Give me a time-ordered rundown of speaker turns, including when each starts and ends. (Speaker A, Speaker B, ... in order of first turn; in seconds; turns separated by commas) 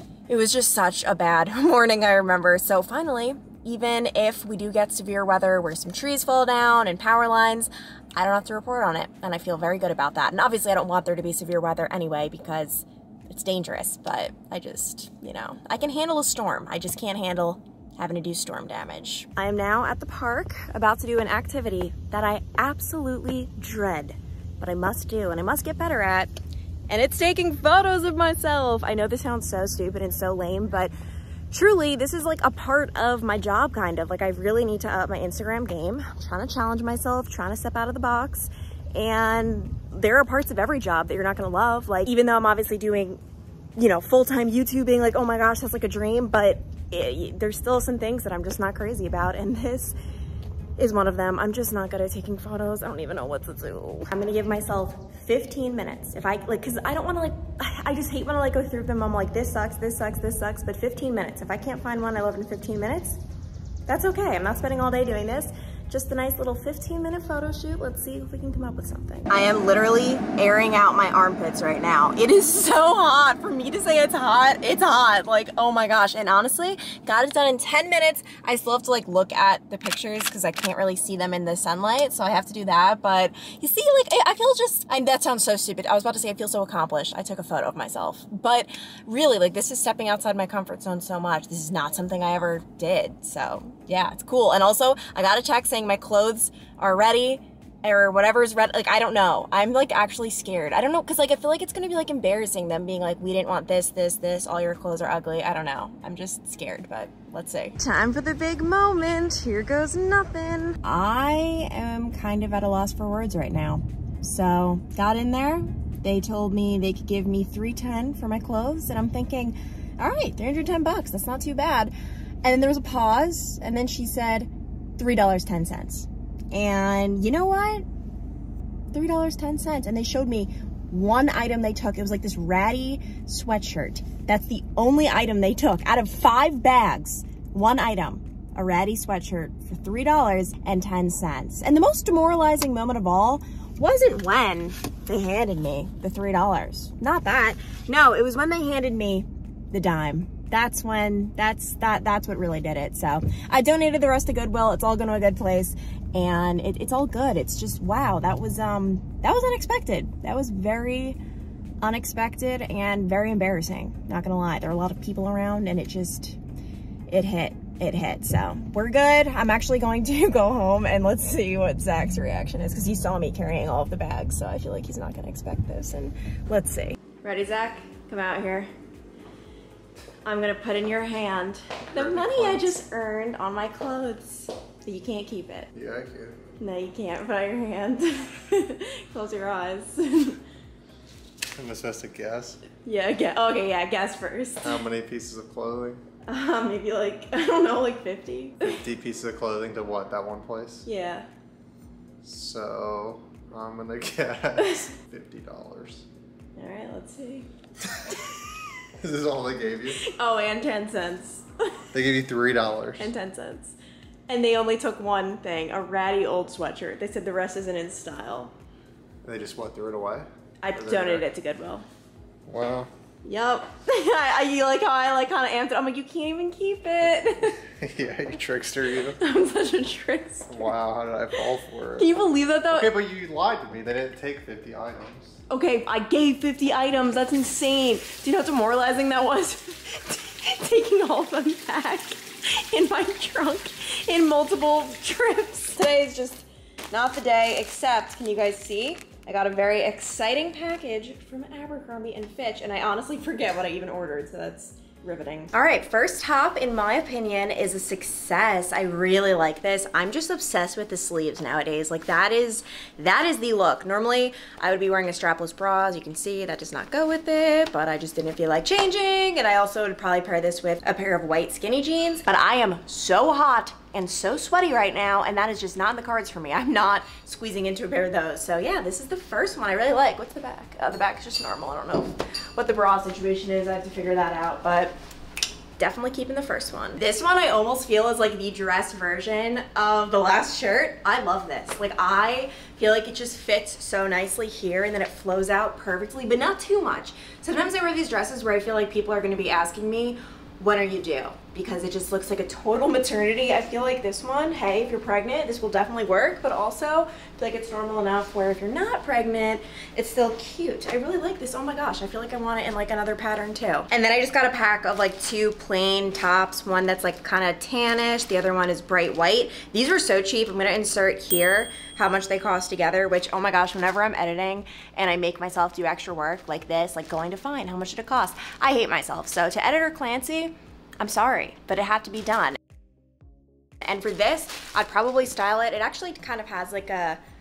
Speaker A: 0.3-26.3, Speaker A: 26.9-30.9, Speaker A: 31.5-43.2, Speaker A: 43.8-49.9, Speaker A: 50.8-63.2, Speaker A: 63.9-121.9, Speaker A: 122.4-127.8, Speaker A: 128.9-161.2, Speaker A: 161.8-166.4, Speaker A: 167.1-178.7, Speaker A: 180.2-185.7, Speaker B: 181.9-182.8, Speaker B: 185.7-186.4, Speaker A: 186.6-190.4, Speaker B: 191.5-192.6, Speaker A: 192.8-194.8, Speaker B: 194.6-196.0, Speaker A: 196.3-198.8, Speaker B: 198.6-200.8, Speaker A: 200.8-201.3, Speaker B: 202.2-206.1, Speaker A: 204.6-204.9, Speaker A: 206.6-207.5, Speaker B: 209.0-210.1, Speaker A: 210.0-211.4, Speaker B: 211.9-213.1, Speaker A: 213.0-213.8, Speaker A: 214.3-218.5, Speaker B: 219.2-221.3, Speaker A: 220.6-221.8, Speaker B: 222.4-222.9, Speaker A: 223.2-227.6, Speaker B: 227.7-229.2, Speaker A: 229.2-230.6, Speaker B: 230.5-232.2, Speaker A: 232.0-232.9, Speaker B: 232.7-235.4, Speaker A: 235.5-284.9, Speaker A: 285.8-332.6, Speaker A: 333.8-337.2